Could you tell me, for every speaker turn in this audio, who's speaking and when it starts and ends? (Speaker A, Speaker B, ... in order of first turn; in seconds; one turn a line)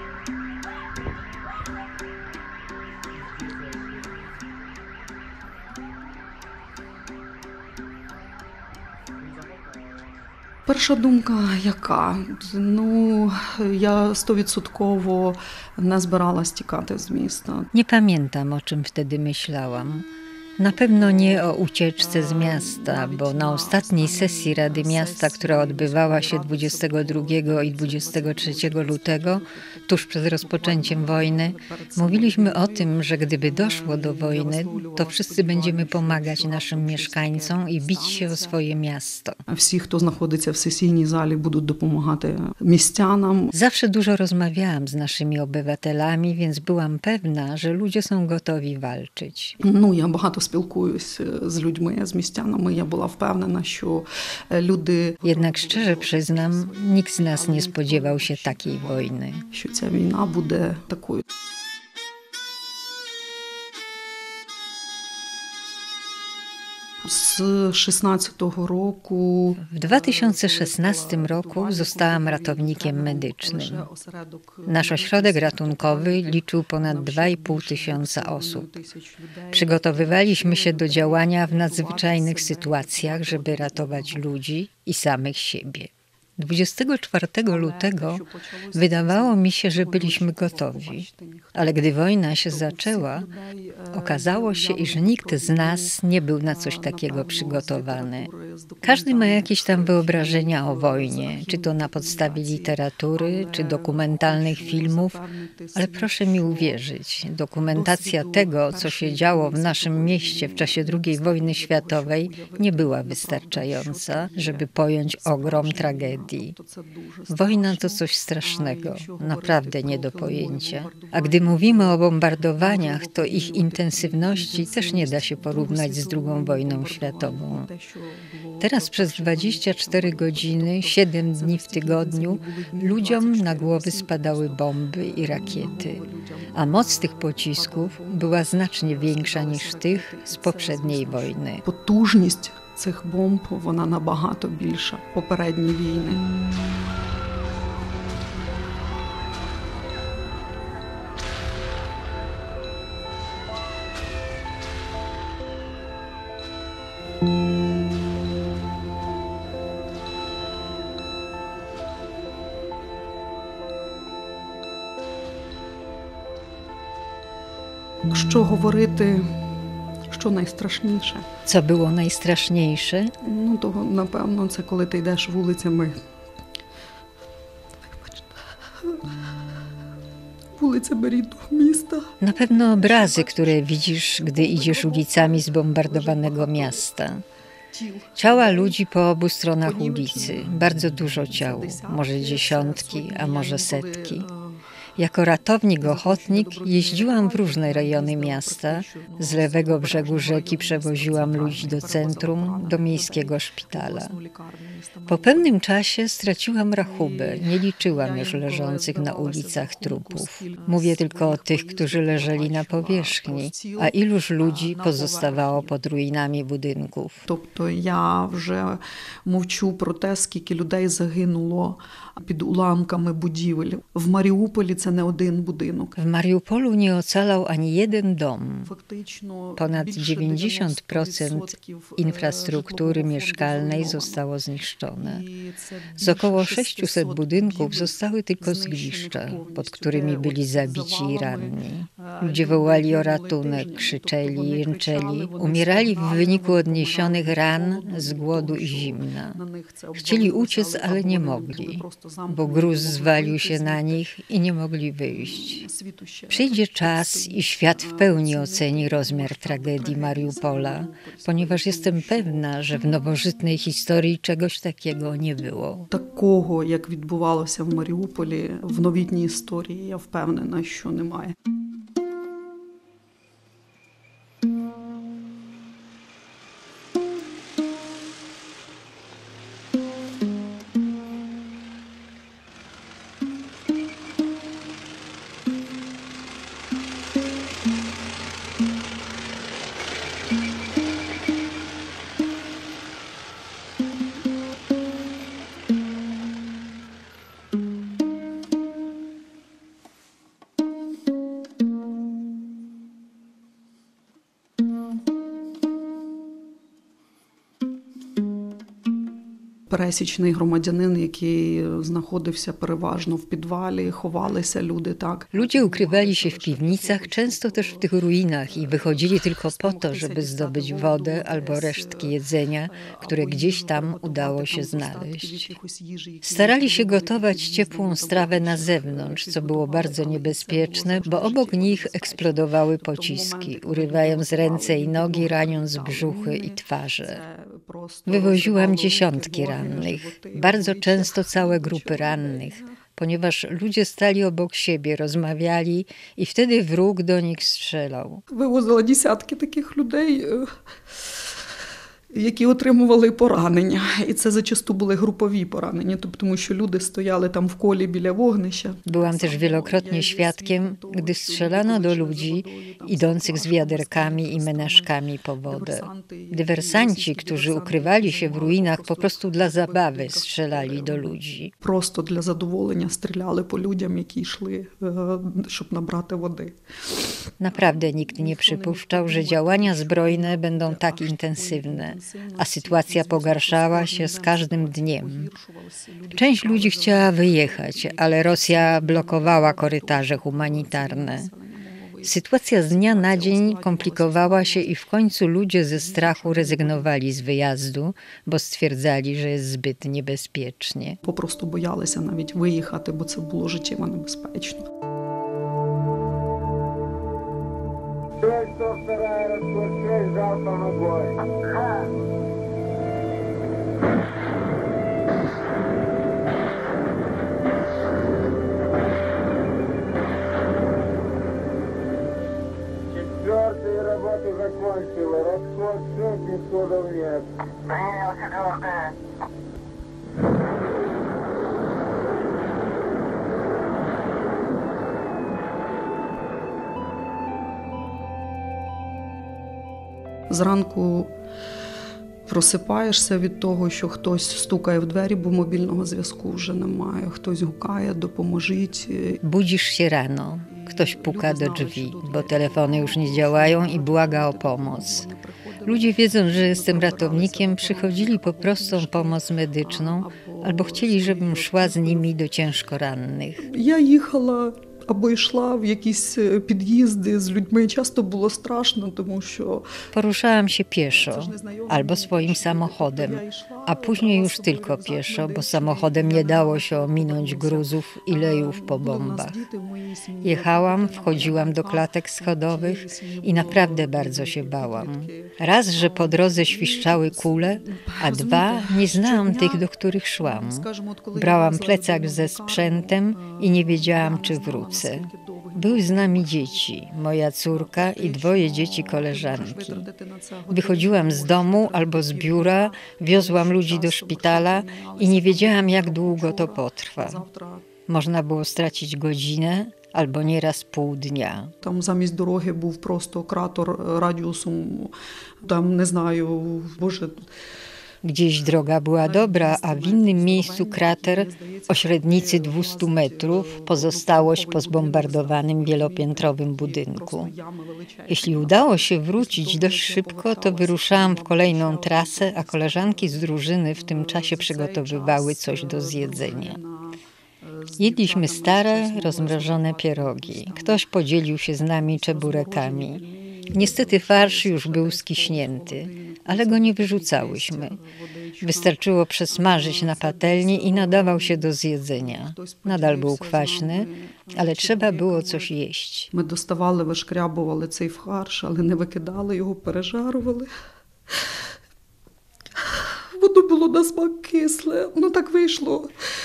Speaker A: 10.7-17.7
Speaker B: 17.7-20.1
Speaker B: 20.6-39.4
Speaker A: 20.7-38.6
Speaker A: 39.5-43.5
Speaker B: 43.5-49.6
Speaker A: 49.6-61.2
Speaker B: 55.2-59.4
Speaker A: 67.0-84.2
Speaker B: 69.6-73.9
Speaker B: 74.7-78.7
Speaker B: 79.5-88.2
Speaker A: 87.5-91.9
Speaker B: 88.7-93.3
Speaker A: 92.4-95.9
Speaker B: 93.9-98.3
Speaker A: 96.5-106.8
Speaker B: 98.8-105.2
Speaker B: 105.8-116.5
Speaker A: 107.7-122.0
Speaker B: 117.3-127.7
Speaker A: 122.6-146.2
Speaker B: 128.6-136.0
Speaker B: 136.5-141.6
Speaker A: 168.1-169.4
Speaker A: 170.1-171.3
Speaker B: 171.4-173.1
Speaker A: 173.2-176.0
Speaker A: 177.9-179.2
Speaker A: 180.6-183.6
Speaker B: 182.2-187.2
Speaker A: 184.2-186.8
Speaker A: 187.7-188.8
Speaker B: 188.2-194.3
Speaker A: 189.6-190.7
Speaker A: 191.3-194.6
Speaker B: 195.0-204.1
Speaker A: 195.8-205.5
Speaker B: 205.1-217.2
Speaker A: 206.8-215.8
Speaker A: 217.3-225.9
Speaker B: 225.9-228.7
Speaker A: 228.6-234.2
Speaker B: 229.6-235.2
Speaker A: 235.0-254.1
Speaker B: 236.0-249.4
Speaker B: 249.9-255.6
Speaker A: 255.1-262.5
Speaker B: 256.3-265.9
Speaker A: 265.9-271.3
Speaker A: 309.7-317.9
Speaker B: 315.3-325.5
Speaker A: 318.5-322.1
Speaker A: 322.7-342.8
Speaker B: 326.2-337.2
Speaker B: 338.1-348.2
Speaker A: 348.3-350.6
Speaker A: 352.1-394.7
Speaker B: 358.9-371.5
Speaker B: 377.4-385.3
Speaker B: 386.1-391.3
Speaker B: 392.0-401.0
Speaker A: 395.7-396.9
Speaker A: 401.0-404.7
Speaker C: 408.2-411.8
Speaker C: 422.9-428.9
Speaker A: 440.3-441.1
Speaker A: 442.3-449.2
Speaker B: 449.2-455.1
Speaker A: 450.5-462.1
Speaker B: 455.6-463.5
Speaker A: 463.4-469.8
Speaker B: 469.9-479.4
Speaker A: 470.9-489.7
Speaker B: 480.2-499.9
Speaker A: 490.2-496.7
Speaker A: 497.5-507.7
Speaker B: 500.5-507.2
Speaker B: 507.9-511.5
Speaker A: 511.6-517.3
Speaker B: 518.0-527.3
Speaker A: 519.0-540.8
Speaker B: 528.1-536.6
Speaker B: 537.8-547.8
Speaker A: 541.9-548.8
Speaker B: 548.4-556.1
Speaker A: 549.3-555.5
Speaker A: 556.1-560.5
Speaker A: 562.6-565.9